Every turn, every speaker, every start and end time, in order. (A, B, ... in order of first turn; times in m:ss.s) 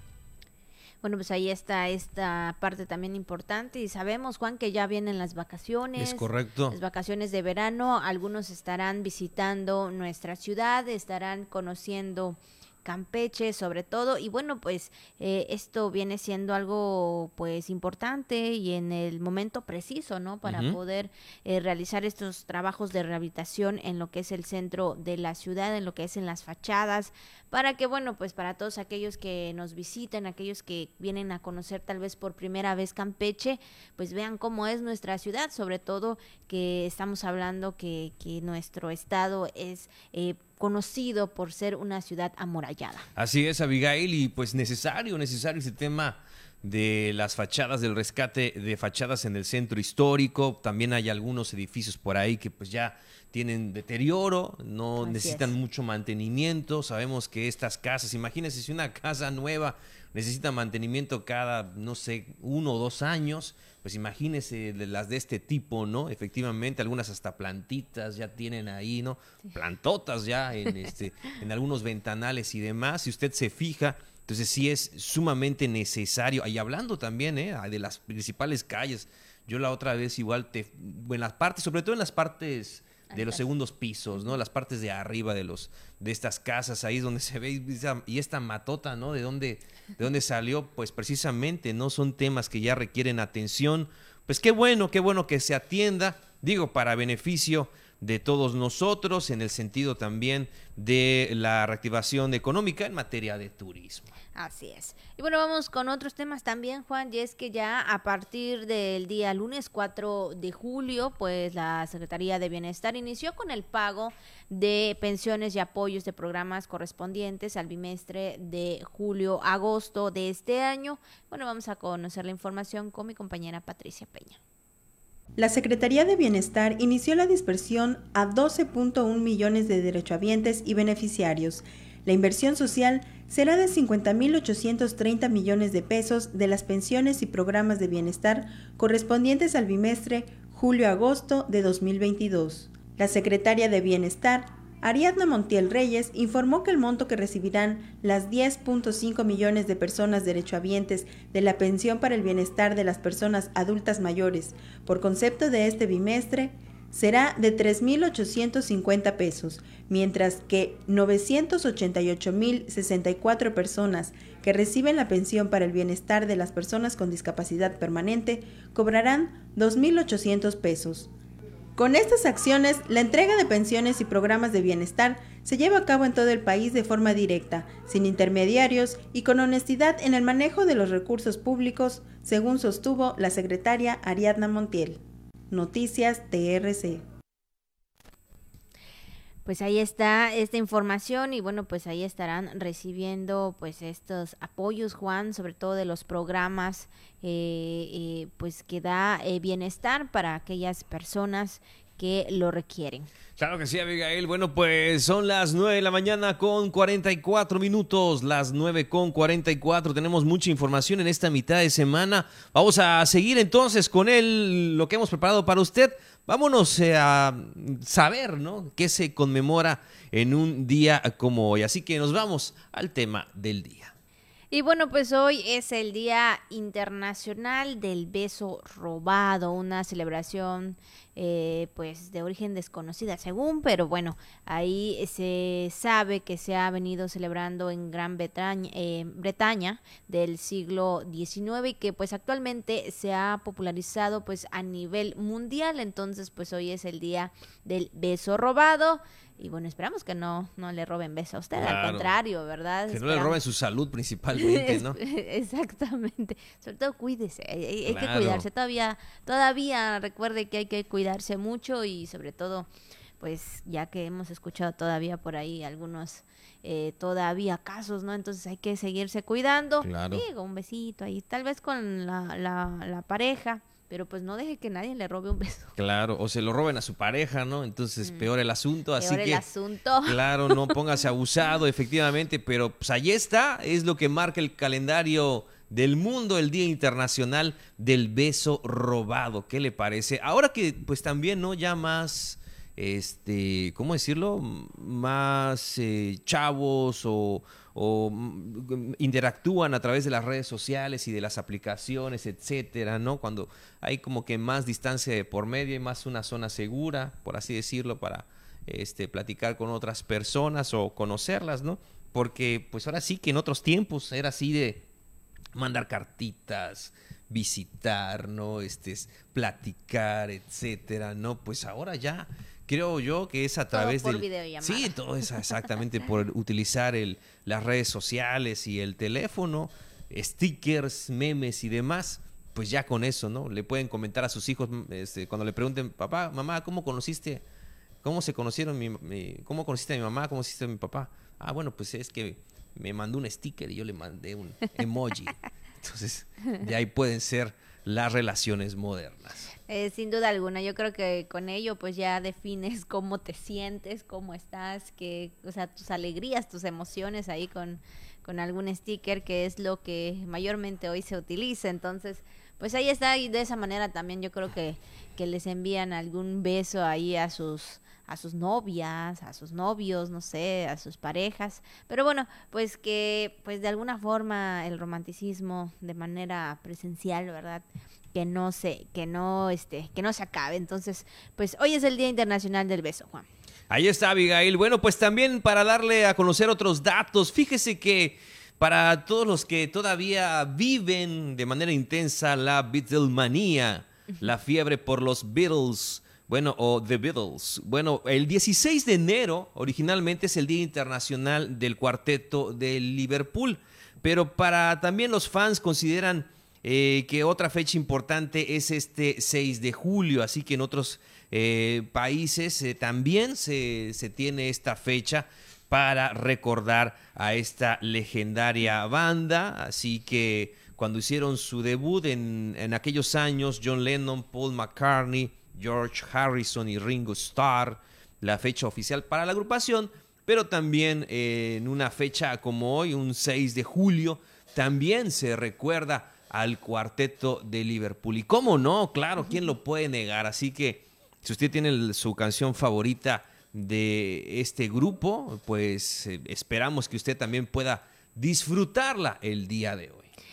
0:01.0-0:43.1 A
0:06.0-0:06.8 B
0:20.4-0:20.8 B
0:43.2-1:44.1 B
0:55.0-0:55.5 A
1:23.1-1:23.5 A
1:44.4-2:04.4 A
2:05.4-2:51.1 C
2:51.8-3:05.0 C
3:05.5-3:07.0 C
3:09.5-3:23.1 A
3:23.4-3:43.9 B
3:44.5-4:13.4 A
4:11.6-4:12.2 B
4:12.9-4:15.0 B
4:14.4-4:22.7 A
4:17.9-4:18.5 B
4:23.2-4:35.8 A
4:29.8-4:30.2 B
4:35.8-4:39.4 B
4:39.0-4:40.7 A
4:40.0-5:14.9 B
5:15.6-5:37.4 B
5:23.7-5:25.0 A
5:38.0-5:49.5 B
5:49.7-6:23.3 A
6:23.7-7:30.1 B